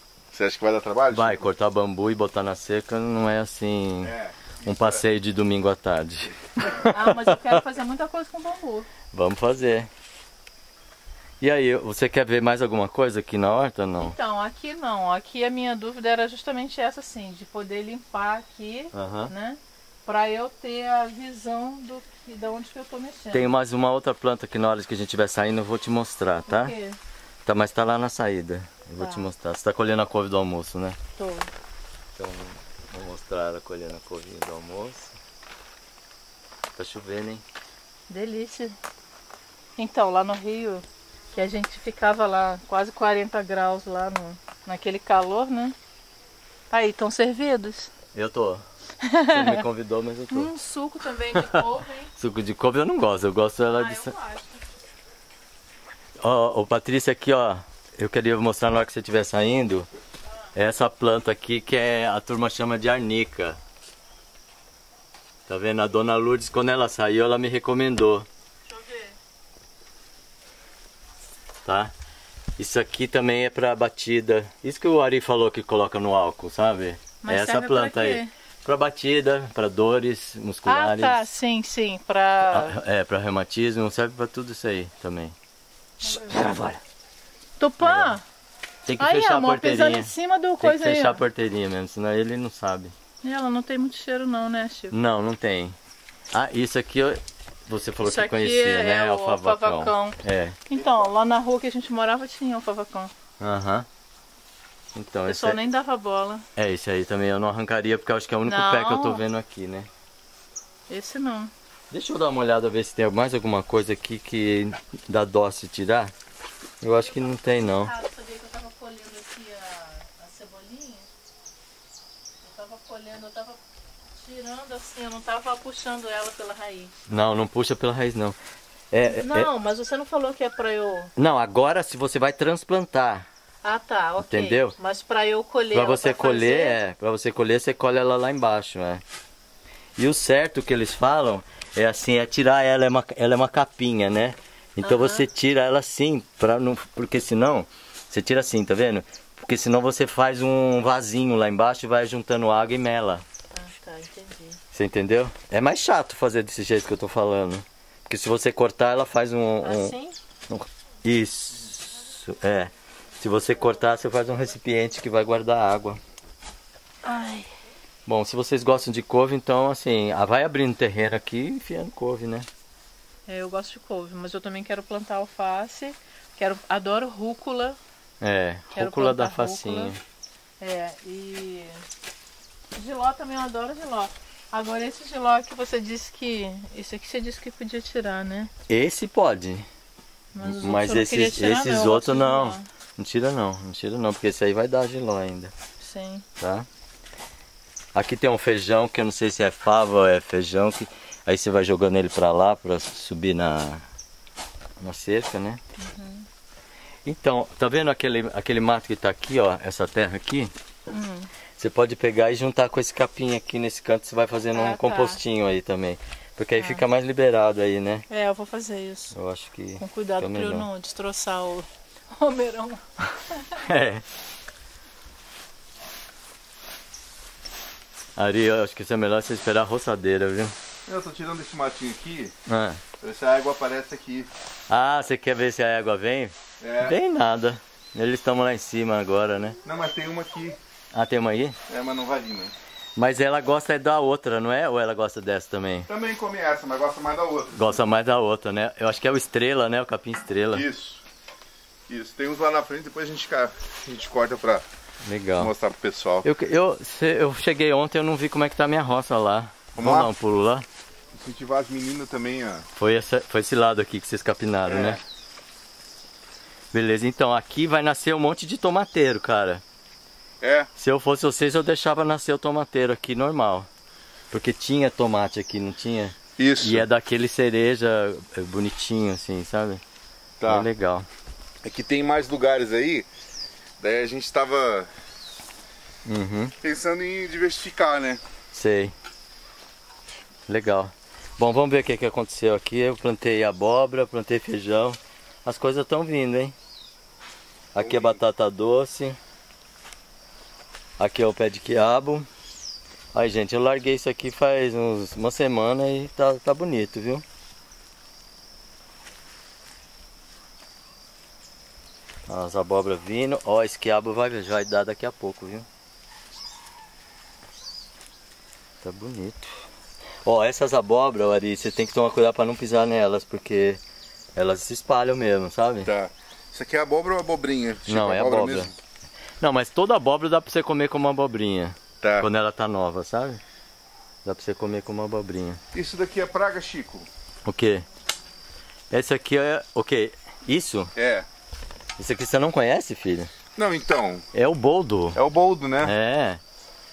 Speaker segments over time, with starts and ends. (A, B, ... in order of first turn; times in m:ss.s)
0:00.3-0:01.5 A
0:01.1-0:07.4 B
0:04.0-0:05.0 A
0:06.6-0:08.9 C
0:09.1-0:09.9 B
0:11.4-0:14.1 B
0:14.0-0:23.5 C
0:18.9-0:19.3 B
0:23.3-0:26.7 B
0:26.5-0:27.0 C
0:27.4-0:31.0 B
0:29.0-0:29.3 C
0:31.2-0:31.5 C
0:32.2-0:35.1 B
0:36.8-0:37.4 B
0:38.1-0:38.8 C
0:39.8-0:40.8 C
0:41.3-0:45.7 C
0:46.7-0:47.9 C
0:48.1-0:48.6 B
0:49.0-0:49.6 C
0:49.3-0:50.5 B
0:50.3-0:52.1 C
0:51.3-0:54.1 B
0:53.7-0:54.6 C
0:56.2-0:59.9 B
1:00.5-1:03.6 B
1:05.5-1:08.3 B
1:08.7-1:09.1 C
1:11.6-1:11.9 B
1:12.6-1:21.2 B
1:17.2-1:18.3 C
1:20.6-1:22.8 C
1:22.5-1:25.3 B
1:26.0-1:26.4 C
1:26.0-1:26.8 B
1:27.6-1:28.2 C
1:27.8-1:28.2 B
1:28.8-1:32.9 B
1:29.0-1:31.2 C
1:33.2-1:35.0 C
1:34.9-1:35.8 B
1:36.3-1:40.6 B
1:38.0-1:43.1 C
1:43.4-1:43.8 B
1:44.9-1:45.6 B
1:45.3-1:46.4 C
1:46.6-1:49.9 B
1:48.5-1:49.2 C
1:50.9-1:51.5 C
1:51.9-1:56.1 B
1:56.8-1:57.9 B
1:57.0-2:01.0 C
2:02.4-2:03.6 C
2:04.1-2:06.9 C
2:07.1-2:08.4 B
2:08.9-2:09.5 B
2:09.2-2:11.1 C
2:11.2-2:13.2 B
2:13.6-2:16.8 C
2:14.2-2:14.7 B
2:15.7-2:19.0 B
2:20.0-2:33.2 B
2:24.8-2:25.3 C
2:33.5-2:34.6 C
2:34.7-2:39.9 B
2:39.6-2:40.2 C
2:40.5-2:46.0 B
2:47.0-2:47.5 C
2:48.0-2:52.5 B
2:53.3-2:57.8 C
2:58.2-3:00.0 B
2:58.7-2:59.9 C
3:00.6-3:01.8 C
3:02.7-3:08.5 C
3:08.7-3:09.7 B
3:10.3-3:12.6 C
3:10.4-3:15.5 B
3:15.8-3:16.2 C
3:16.4-3:16.7 B
3:17.9-3:23.8 B
3:24.8-3:25.6 B
3:25.8-3:26.2 C
3:27.0-3:30.5 B
3:30.9-3:31.3 C
3:31.6-3:38.0 B
3:34.5-3:35.2 C
3:36.6-3:36.8 C
3:38.1-3:39.1 C
3:39.1-3:40.7 B
3:39.8-3:43.6 C
3:43.6-3:44.0 B
3:48.2-3:50.5 B
3:50.9-3:52.3 A
3:52.5-3:52.8 B
3:53.0-3:54.3 A
3:54.7-3:59.6 B
3:56.6-3:56.9 A
3:59.6-4:00.6 A
4:00.9-4:01.6 B
4:01.7-4:02.5 A
4:03.0-4:05.9 B
4:05.9-4:07.8 A
4:07.5-4:10.6 B
4:10.5-4:11.0 A
4:11.9-4:14.6 A
4:15.0-4:15.5 B
4:15.4-4:16.3 A
4:16.2-4:20.6 B
4:19.8-4:20.1 A
4:21.1-4:22.6 A
4:22.8-4:25.0 B
4:24.6-4:25.0 A
4:26.7-4:29.6 B
4:30.4-4:30.7 A
4:30.8-4:33.7 B
4:34.3-4:39.8 B
4:36.4-4:36.8 A
4:40.4-4:40.7 A
4:40.4-4:41.1 B
4:41.6-4:43.1 A
4:43.8-4:44.9 A
4:46.0-4:46.5 B
4:46.6-4:48.2 A
4:48.5-4:48.9 B
4:50.5-4:56.5 B
4:57.7-4:59.2 B
4:57.8-4:58.2 A
5:01.0-5:02.3 B
5:03.1-5:07.2 B
5:12.3-5:15.6 B
5:18.8-5:19.6 B
5:20.2-5:23.8 B
5:24.4-5:25.9 B
5:25.8-5:28.7 A
5:27.9-5:28.7 B
5:29.4-5:33.4 B
5:32.0-5:32.3 A
5:34.2-5:35.6 B
5:35.7-5:37.0 A
5:37.4-5:37.8 B
5:38.9-5:40.9 B
5:40.9-5:41.2 A
5:42.0-5:43.3 B
5:43.6-5:44.2 A
5:44.3-5:45.2 B
5:45.1-5:45.9 A
5:45.8-5:46.4 B